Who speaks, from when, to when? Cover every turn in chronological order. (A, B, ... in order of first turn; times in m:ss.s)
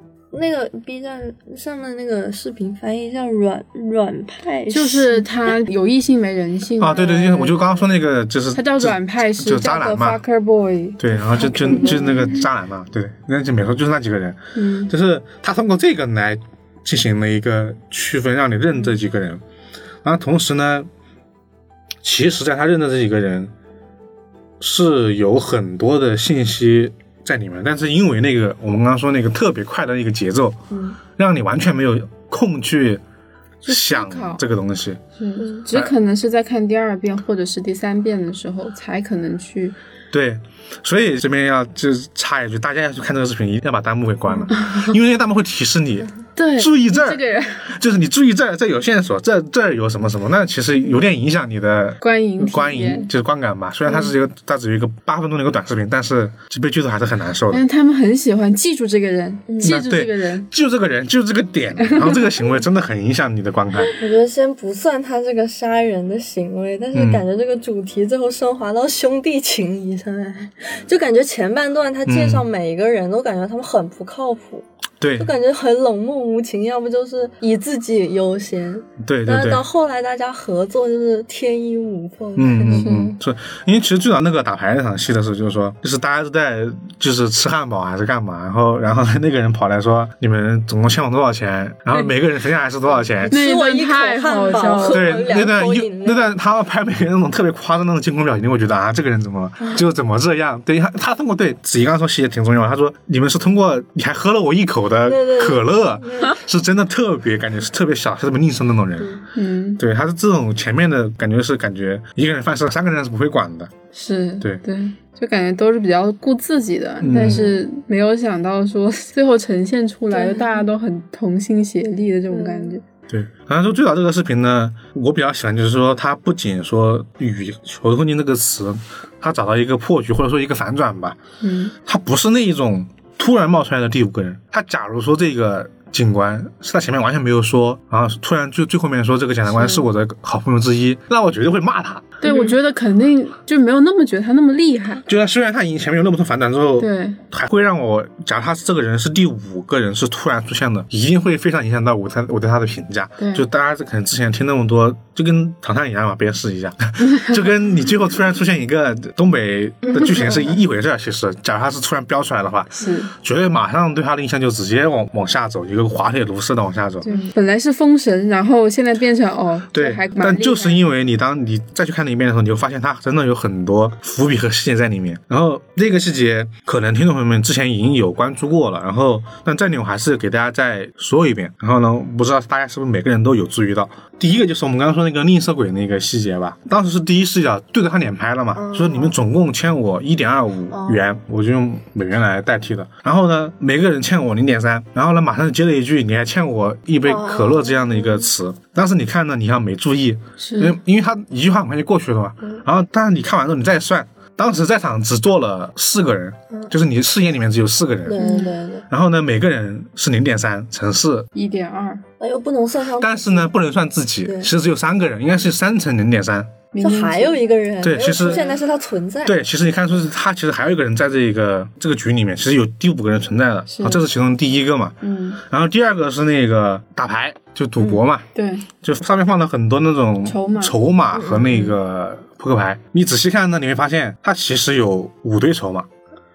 0:00.3-0:05.3 A
0:04.7-0:07.8 B
0:06.8-0:10.2 C
0:08.5-0:12.4 B
0:11.0-0:19.4 C
0:14.6-0:14.9 B
0:20.0-0:20.9 C
0:22.0-0:23.5 C
0:24.6-0:30.6 C
0:31.1-0:33.0 C
0:33.6-0:34.4 B
0:33.7-0:35.0 C
0:35.2-0:39.8 B
0:40.1-0:57.6 C
0:44.6-0:44.9 B
0:46.4-0:47.7 B
0:52.0-0:53.1 B
0:57.5-1:00.5 B
0:59.5-0:59.8 A
0:59.6-1:03.9 C
1:03.9-1:14.7 A
1:06.9-1:07.2 C
1:12.1-1:12.5 C
1:15.0-1:15.3 C
1:15.2-1:23.1 A
1:19.0-1:19.6 C
1:22.4-1:33.4 C
1:22.8-1:23.1 B
1:33.2-1:36.3 A
1:33.3-1:35.1 B
1:34.9-1:49.2 C
1:45.0-1:46.3 A
1:49.4-1:49.8 B
1:49.8-1:53.7 C
1:53.9-2:02.8 B
1:57.0-1:57.5 C
1:57.2-1:57.5 A
2:00.1-2:00.7 A
2:02.3-2:02.8 A
2:03.1-2:11.2 C
2:11.4-2:11.7 B
2:11.8-2:22.2 C
2:19.5-2:19.8 B
2:22.2-2:25.0 B
2:22.3-2:22.5 A
2:25.1-2:47.1 C
2:26.8-2:27.2 B
2:33.2-2:33.5 B
2:37.1-2:37.3 B
2:42.8-2:43.1 B
2:47.0-2:50.8 B
2:49.7-3:28.2 C
3:08.6-3:09.2 A
3:10.7-3:11.0 A
3:17.0-3:18.3 A
3:20.4-3:20.8 B
3:28.1-3:28.8 A
3:28.2-3:28.5 B
3:28.9-3:31.3 C
3:31.4-3:32.0 B
3:32.2-3:33.5 A
3:33.0-3:36.5 C
3:34.3-3:34.5 A
3:36.7-3:37.4 B
3:36.8-3:39.4 A
3:37.8-3:38.4 C
3:38.1-3:38.5 B
3:39.2-3:48.2 C
3:43.7-3:44.0 B
3:45.0-3:45.4 B
3:48.3-3:48.7 B
3:48.8-3:55.9 C
3:50.2-3:50.8 B
3:51.2-3:51.7 A